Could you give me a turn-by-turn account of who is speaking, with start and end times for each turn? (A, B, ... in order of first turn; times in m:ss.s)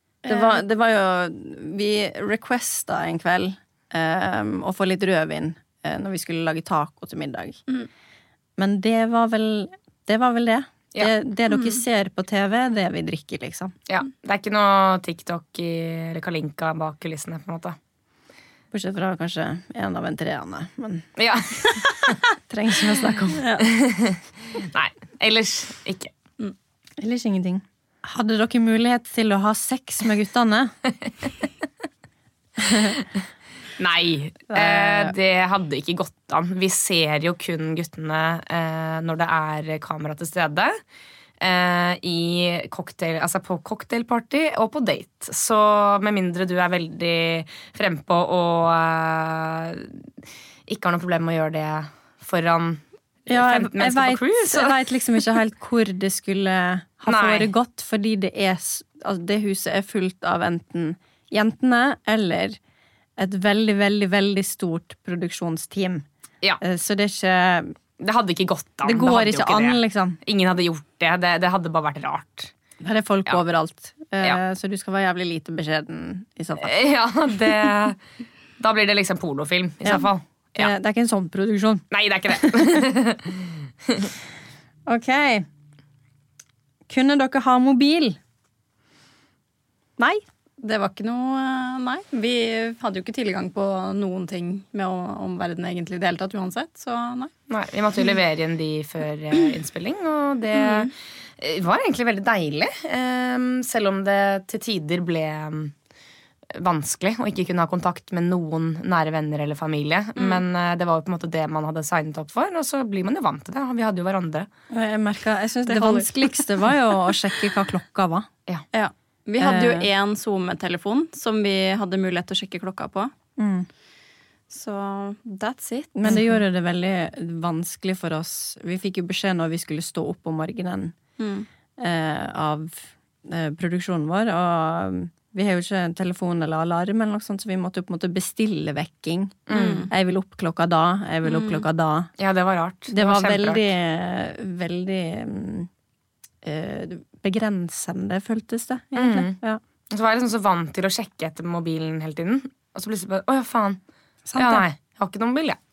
0:00.2-0:00.6 A
0:00.2-0:07.6 B
0:08.6-0:13.7 B
0:13.9-0:17.8 C
0:18.7-0:21.1 B
0:21.2-0:21.9 C
0:22.5-0:23.4 B
0:23.4-0:23.6 A
0:23.6-0:26.1 C
0:27.0-0:30.7 B
0:32.6-0:33.0 B
0:33.8-0:40.8 C
0:34.5-0:35.1 B
0:41.4-0:50.0 C
0:50.7-0:54.8 C
0:53.3-1:02.6 B
0:57.1-0:57.5 C
1:03.2-1:06.0 B
1:06.6-1:07.7 B
1:08.0-1:12.5 C
1:08.8-1:10.2 B
1:12.8-1:16.7 B
1:16.6-1:18.0 C
1:18.6-1:20.7 C
1:19.8-1:22.8 B
1:21.9-1:23.4 C
1:24.8-1:25.4 B
1:26.9-1:28.2 B
1:30.0-1:30.2 B
1:30.6-1:37.3 A
1:37.5-1:45.7 C
1:40.5-1:40.9 A
1:46.5-1:54.5 C
1:50.2-1:50.4 A
1:54.7-1:58.3 B
1:55.6-1:56.1 A
1:58.7-2:03.1 A
1:59.4-1:59.9 B
2:03.4-2:03.7 B
2:04.5-2:06.2 A
2:06.0-2:10.9 B
2:06.1-2:06.4 C
2:11.2-2:11.5 A
2:11.8-2:22.1 B
2:19.5-2:19.9 C
2:19.5-2:19.9 A
2:21.2-2:21.6 A
2:22.2-2:23.6 C
2:22.9-2:25.7 B
2:26.4-2:29.6 B
2:28.9-2:29.4 C
2:29.9-2:33.8 C
2:34.2-2:34.6 B
2:34.3-2:35.6 C